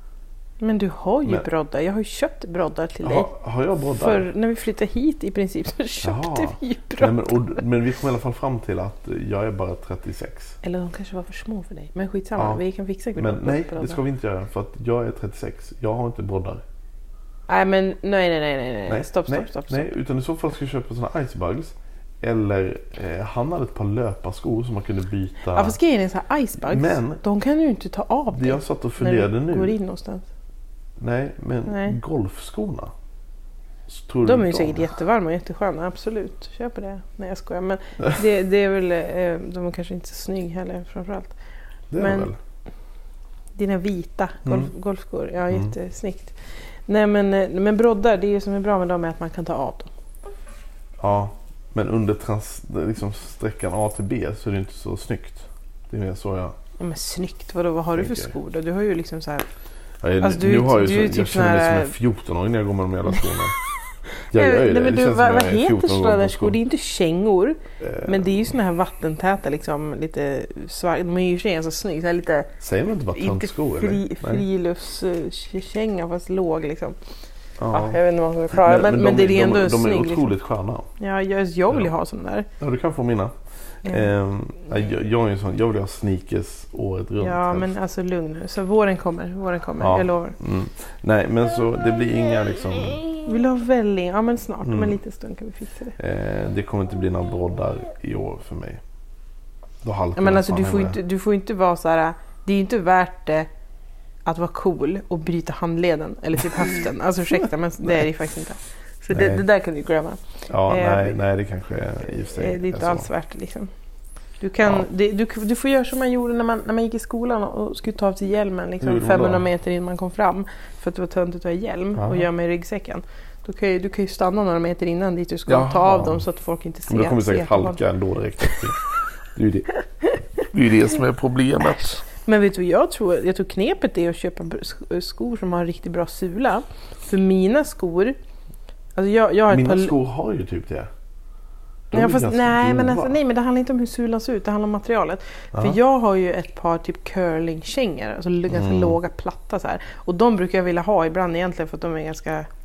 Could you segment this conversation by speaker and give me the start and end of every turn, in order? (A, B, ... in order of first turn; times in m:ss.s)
0:00.6-0:03.3 A
0:03.0-0:04.3 B
0:04.0-0:07.6 A
0:06.0-0:10.6 B
0:10.6-0:14.0 A
0:12.4-0:12.6 B
0:13.2-0:16.6 B
0:17.5-0:19.9 A
0:18.9-0:25.8 B
0:25.5-0:30.3 A
0:26.6-0:27.2 B
0:28.3-0:29.8 B
0:31.0-0:32.9 B
0:31.7-0:32.0 A
0:33.9-0:34.9 B
0:34.2-0:41.4 A
0:41.9-0:42.4 B
0:42.0-0:42.3 A
0:43.6-0:49.9 A
0:44.4-0:44.7 B
0:51.0-0:56.6 B
0:56.8-0:59.5 A
0:57.9-0:58.3 B
1:00.0-1:03.6 B
1:00.2-1:01.9 A
1:04.3-1:06.6 B
1:04.3-1:12.5 A
1:07.8-1:08.5 B
1:12.6-1:14.4 B
1:13.1-1:17.0 A
1:17.6-1:18.0 B
1:17.7-1:20.4 A
1:18.5-1:20.9 B
1:21.0-1:22.5 A
1:22.6-1:27.7 B
1:23.8-1:24.1 A
1:27.2-1:30.4 A
1:29.8-1:33.1 B
1:33.2-1:36.0 A
1:34.6-1:35.0 B
1:36.0-1:38.8 B
1:39.8-1:41.0 B
1:40.2-1:43.5 A
1:44.3-1:51.2 A
1:49.1-1:49.4 B
1:50.5-1:53.1 B
1:52.3-1:53.7 A
1:54.4-2:07.8 A
1:54.6-1:54.9 B
1:58.8-1:59.5 B
2:02.0-2:02.3 B
2:05.5-2:06.2 B
2:06.9-2:08.8 B
2:09.3-2:09.7 B
2:10.4-2:12.0 B
2:12.2-2:18.2 A
2:19.0-2:20.0 A
2:19.5-2:20.9 B
2:21.9-2:23.2 B
2:21.9-2:32.5 A
2:28.5-2:29.0 B